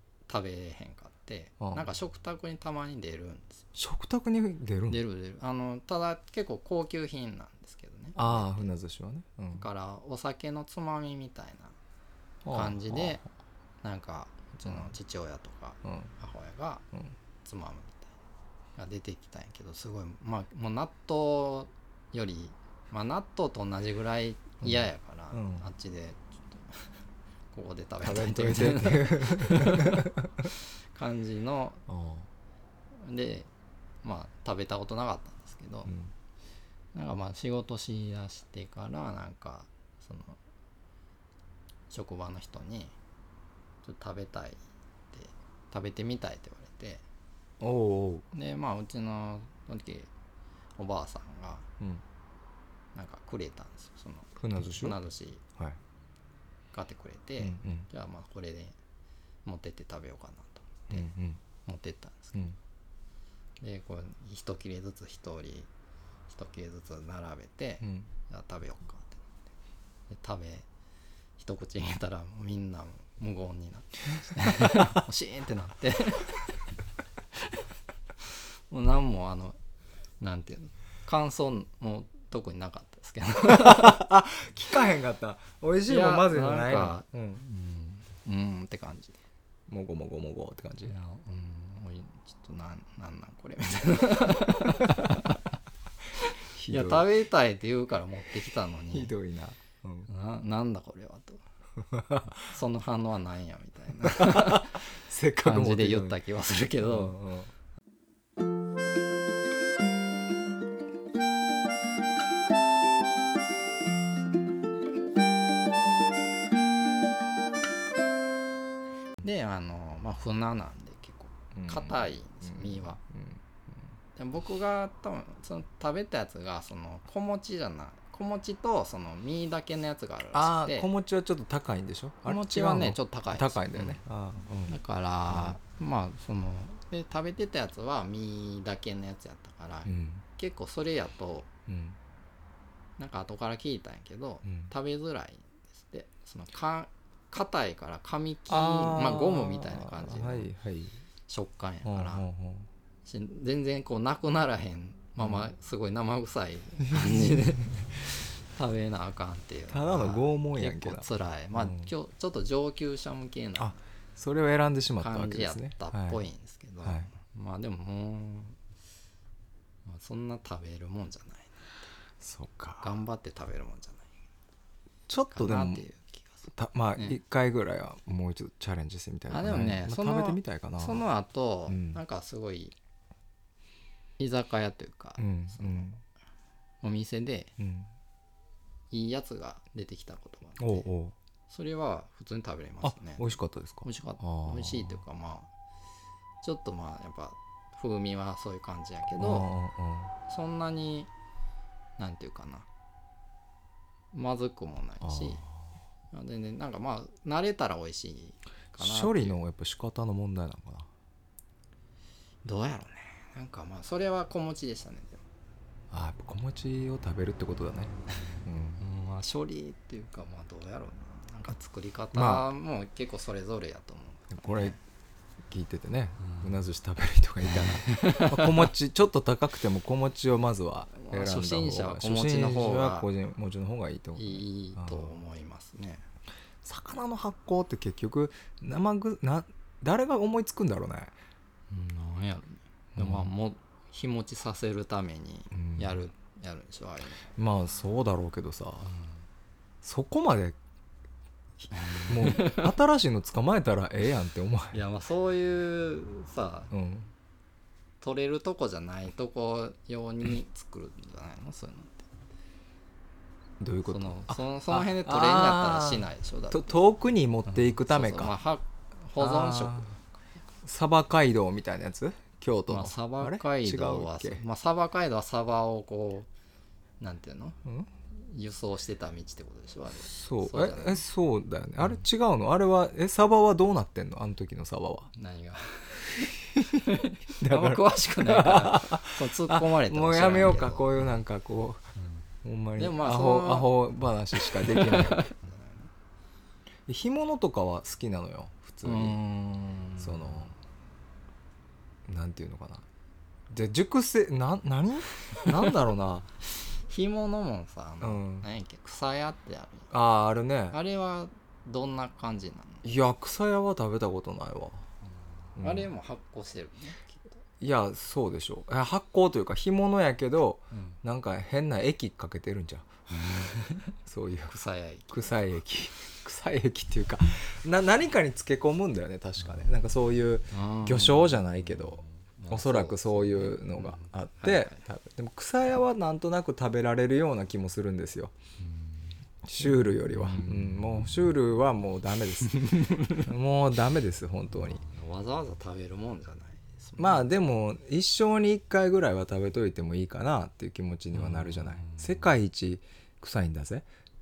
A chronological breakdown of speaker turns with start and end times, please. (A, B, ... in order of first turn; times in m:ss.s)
0:00.3-0:03.6 A
0:03.8-0:05.0 B
0:04.9-0:08.7 A
0:08.2-0:09.7 B
0:09.5-0:11.8 A
0:12.4-0:13.2 B
0:12.5-0:13.2 A
0:13.8-0:16.9 A
0:14.6-0:14.9 B
0:15.8-0:16.1 B
0:17.4-0:18.1 A
0:18.8-0:26.9 A
0:24.6-0:25.6 B
0:27.5-0:31.8 A
0:28.0-0:30.5 B
0:31.9-0:32.3 B
0:33.0-0:33.5 A
0:34.0-0:35.9 A
0:35.9-0:36.1 B
0:36.9-0:40.4 A
0:41.9-0:43.0 A
0:43.8-0:44.6 A
0:45.1-0:47.0 A
0:47.6-0:48.3 B
0:48.3-0:50.1 A
0:50.8-0:51.7 A
0:53.0-0:55.4 A
0:54.4-0:55.0 B
0:56.7-0:58.8 A
0:57.4-0:57.9 B
0:59.4-1:01.1 A
1:00.9-1:01.4 B
1:01.6-1:02.5 A
1:03.6-1:05.7 A
1:06.3-1:09.2 A
1:10.1-1:10.7 A
1:11.4-1:16.6 A
1:18.7-1:19.6 A
1:20.2-1:24.0 A
1:23.5-1:27.4 B
1:25.9-1:29.2 A
1:29.7-1:31.0 B
1:30.9-1:35.4 A
1:36.2-1:39.1 A
1:36.5-1:37.1 B
1:38.9-1:40.1 B
1:40.1-1:41.4 A
1:41.8-1:42.4 B
1:42.4-1:44.8 A
1:44.0-1:46.2 B
1:45.4-1:47.2 A
1:46.8-1:47.5 B
1:59.2-2:03.0 A
2:01.6-2:03.4 B
2:04.2-2:10.9 A
2:10.3-2:14.8 B
2:12.2-2:14.0 A
2:14.7-2:21.5 A
2:15.3-2:15.6 B
2:19.9-2:20.2 B
2:21.7-2:22.0 B
2:23.0-2:30.5 A
2:24.4-2:24.7 B
2:28.5-2:31.0 B
2:31.3-2:32.2 A
2:31.8-2:32.7 B
2:33.0-2:43.8 A
2:35.2-2:35.5 B
2:36.9-2:37.6 B
2:39.7-2:41.9 B
2:43.6-2:46.2 B
2:45.0-2:48.6 A
2:46.8-2:47.1 B
2:49.9-2:51.8 A
2:52.2-2:52.9 B
2:52.8-2:54.1 A
2:55.1-2:55.8 B
2:55.3-2:57.2 A
2:56.5-3:01.0 B
2:59.3-3:02.8 A
3:01.7-3:02.0 B
3:04.2-3:06.0 A
3:05.2-3:06.0 B
3:06.8-3:07.5 A
3:07.6-3:07.9 B
3:08.9-3:10.9 A
3:10.6-3:11.2 B
3:11.5-3:13.3 A
3:12.8-3:15.0 B
3:13.8-3:15.5 A
3:16.4-3:19.5 A
3:19.2-3:20.1 B
3:20.3-3:21.1 A
3:22.0-3:22.7 A
3:24.1-3:25.4 A
3:25.0-3:25.5 B
3:26.1-3:29.4 A
3:28.8-3:30.9 B
3:32.4-3:35.2 A
3:35.9-3:38.8 B
3:38.8-3:44.8 A
3:42.1-3:42.5 B
3:44.3-3:44.8 B
3:45.5-3:55.1 B
3:46.2-3:46.5 A
3:47.5-3:48.7 A
3:51.0-3:53.1 A
3:54.2-3:56.0 A
3:56.6-4:01.2 B
4:01.7-4:07.3 A
4:03.0-4:03.3 B
4:05.5-4:06.0 B
4:07.4-4:08.9 B
4:08.8-4:09.2 A
4:09.8-4:10.6 B
4:11.6-4:14.8 B
4:11.7-4:12.7 A
4:14.7-4:16.7 A
4:16.7-4:17.1 B
4:18.0-4:22.1 A
4:23.6-4:28.4 B
4:23.9-4:26.8 A
4:27.5-4:30.1 A
4:29.2-4:29.9 B
4:30.6-4:34.4 B
4:32.7-4:36.3 A
4:37.0-4:37.6 A
4:38.1-4:41.0 A
4:40.0-4:45.1 B
4:45.1-4:51.0 A
4:46.6-4:46.8 B
4:47.4-4:51.8 B
4:52.0-4:52.2 A
4:52.4-4:55.3 B
4:52.8-4:53.7 A
4:54.3-4:55.9 A
4:56.9-4:59.2 B
4:58.8-5:00.3 A
5:00.0-5:00.6 B
5:02.1-5:02.8 B
5:03.5-5:06.3 B
5:06.9-5:09.9 A
5:08.0-5:08.5 B
5:09.9-5:10.8 B
5:10.7-5:12.8 A
5:12.8-5:14.8 B
5:15.6-5:17.4 A
5:15.6-5:15.9 B
5:17.6-5:22.9 B
5:23.1-5:23.9 A
5:24.1-5:24.6 B
5:24.5-5:25.4 A
5:25.1-5:38.3 B
5:30.5-5:34.8 A
5:38.6-5:41.1 A
5:39.4-5:44.8 B
5:42.5-5:43.2 A
5:44.8-5:47.4 A
5:47.0-5:53.9 B
5:51.1-5:52.3 A